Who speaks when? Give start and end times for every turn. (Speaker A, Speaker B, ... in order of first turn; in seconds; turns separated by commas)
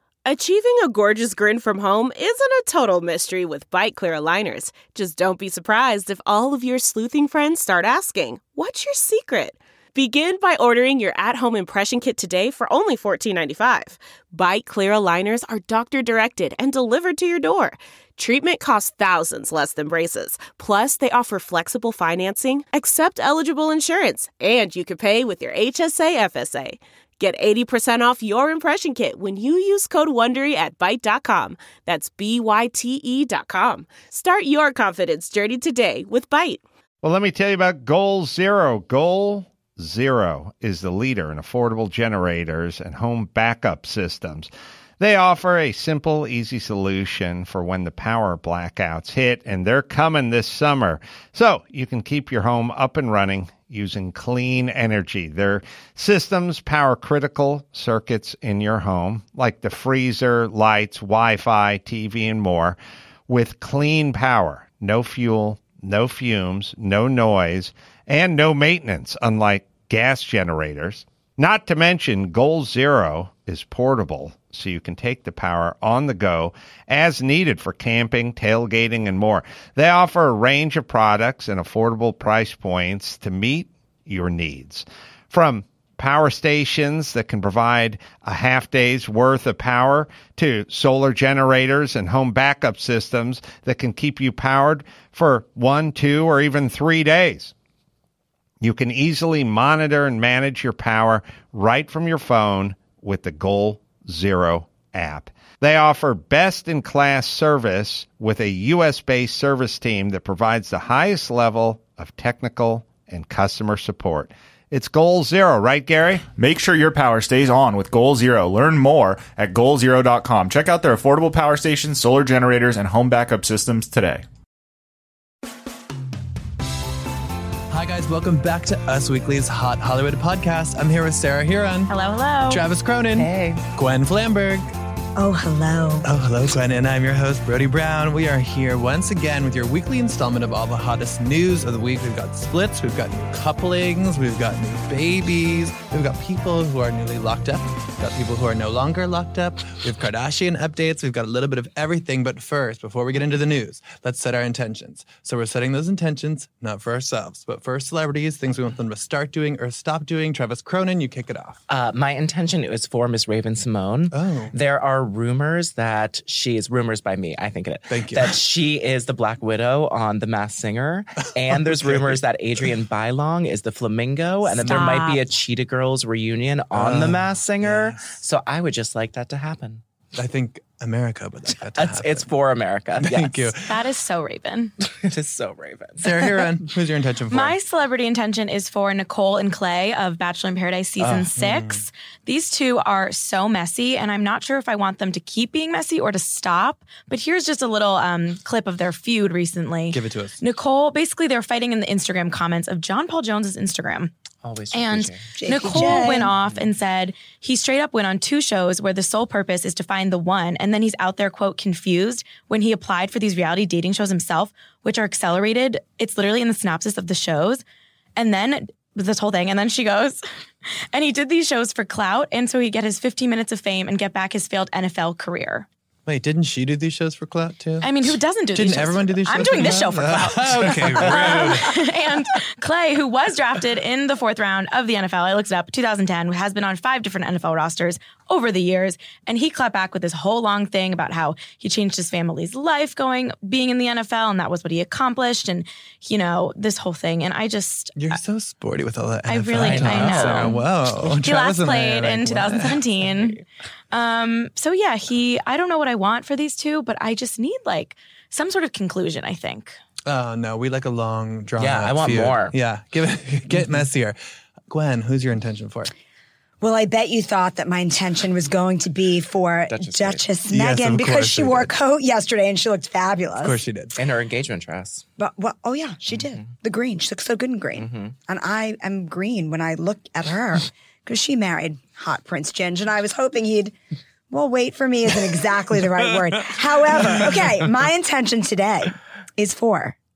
Speaker A: 0.2-36.6, Speaker B: 37.0-97.5, Speaker B: 98.6-116.2, Speaker C: 116.3-124.2, Speaker D: 127.7-131.9, Speaker E: 131.9-132.6, Speaker D: 132.5-134.7, Speaker F: 133.1-133.6, Speaker G: 135.2-136.1, Speaker D: 136.0-161.6, Speaker F: 161.7-179.8, Speaker D: 164.1-164.5, Speaker D: 167.9-168.3, Speaker D: 171.5-172.2, Speaker D: 174.5-174.9, Speaker E: 174.7-175.2, Speaker D: 176.7-178.2, Speaker D: 180.1-182.3, Speaker F: 181.7-183.5, Speaker D: 183.0-183.7, Speaker E: 183.6-184.7, Speaker F: 184.8-186.4, Speaker D: 186.0-187.6, Speaker E: 187.3-204.1, Speaker F: 191.0-191.3, Speaker D: 191.3-191.8, Speaker D: 199.9-200.4, Speaker F: 204.4-206.6, Speaker E: 204.7-217.6, Speaker G: 205.4-206.3, Speaker E: 218.2-220.2, Speaker E: 220.9-225.7, Speaker D: 226.1-231.8, Speaker E: 227.8-248.1, Speaker F: 230.7-231.6, Speaker D: 247.9-252.8, Speaker E: 249.3-250.6, Speaker F: 249.6-250.5, Speaker E: 251.2-253.4, Speaker E: 253.9-259.8, Speaker D: 260.1-265.9, Speaker F: 261.6-262.6, Speaker G: 266.6-273.6, Speaker F: 269.7-270.2, Speaker D: 270.5-271.7, Speaker D: 273.4-274.0, Speaker F: 274.0-275.0, Speaker G: 275.2-283.7, Speaker F: 276.2-276.5, Speaker F: 277.8-278.1, Speaker G: 284.3-289.9